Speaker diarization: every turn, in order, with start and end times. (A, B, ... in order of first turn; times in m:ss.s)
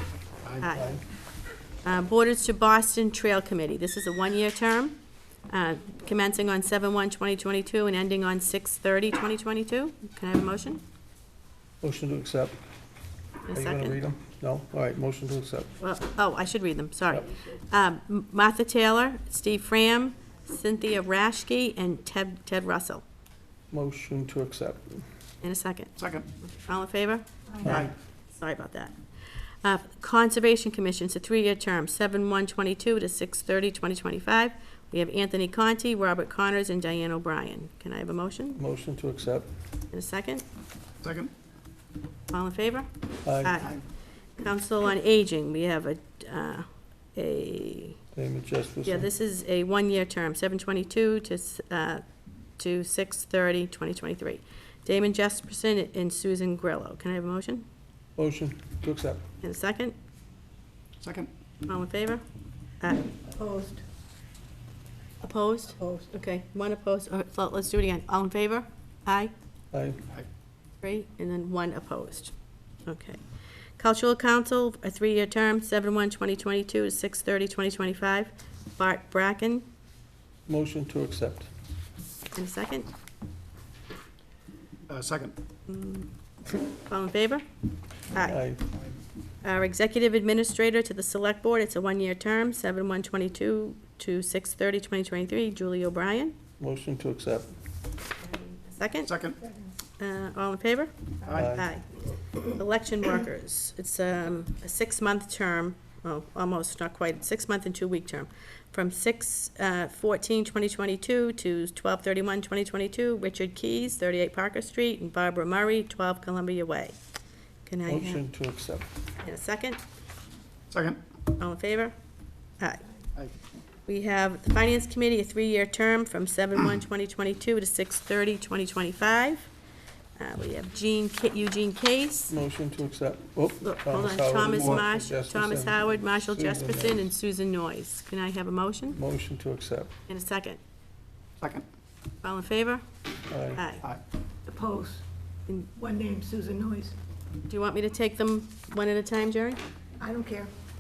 0:00.4-0:00.7 A
0:00.6-0:01.0 B
0:00.7-0:01.0 C
0:01.8-0:05.0 B
0:05.5-0:10.8 B
0:11.8-0:12.6 C
0:13.5-0:14.0 B
0:13.5-0:15.7 C
0:15.8-0:23.0 B
0:23.7-0:25.0 C
0:25.4-0:29.0 B
0:26.0-0:26.3 A
0:27.6-0:27.9 C
0:27.7-0:27.9 A
0:29.6-0:38.6 B
0:38.6-0:39.5 C
0:39.9-0:40.4 B
0:41.0-0:41.3 A
0:42.3-0:42.9 B
0:43.2-0:43.7 C
0:43.4-0:43.8 B
0:44.4-0:48.0 B
0:48.2-0:49.1 C
0:48.8-0:52.0 B
0:52.6-0:57.6 B
0:58.2-0:59.2 C
0:59.4-1:00.0 B
1:01.0-1:01.3 A
1:01.6-1:02.2 B
1:02.8-1:03.2 B
1:03.3-1:03.8 D
1:05.2-1:09.3 B
1:05.8-1:06.1 D
1:09.7-1:10.0 C
1:10.8-1:12.3 B
1:12.9-1:13.2 B
1:13.8-1:19.6 B
1:20.5-1:21.5 C
1:22.3-1:22.9 B
1:24.9-1:25.4 A
1:25.7-1:26.1 B
1:26.8-1:27.4 B
1:28.1-1:28.4 B
1:28.2-1:28.6 C
1:29.4-1:36.4 B
1:36.6-1:37.5 C
1:38.2-1:39.1 B
1:39.0-1:39.4 A
1:40.0-1:41.9 B
1:41.2-1:41.5 A
1:41.3-1:41.7 C
1:42.4-1:57.0 B
1:57.7-1:58.2 B
1:57.9-1:58.9 C
1:59.2-1:59.8 B
2:00.7-2:01.0 A
2:01.4-2:01.9 B
2:03.9-2:09.5 B
2:10.2-2:12.3 B
2:12.3-2:17.1 C
2:13.6-2:19.0 B
2:14.5-2:14.8 A
2:18.9-2:19.9 C
2:20.1-2:20.6 B
2:22.2-2:22.8 B
2:23.3-2:23.6 C
2:23.5-2:23.8 B
2:24.5-2:25.0 D
2:25.8-2:27.0 D
2:27.5-2:29.6 B
2:30.0-2:30.5 D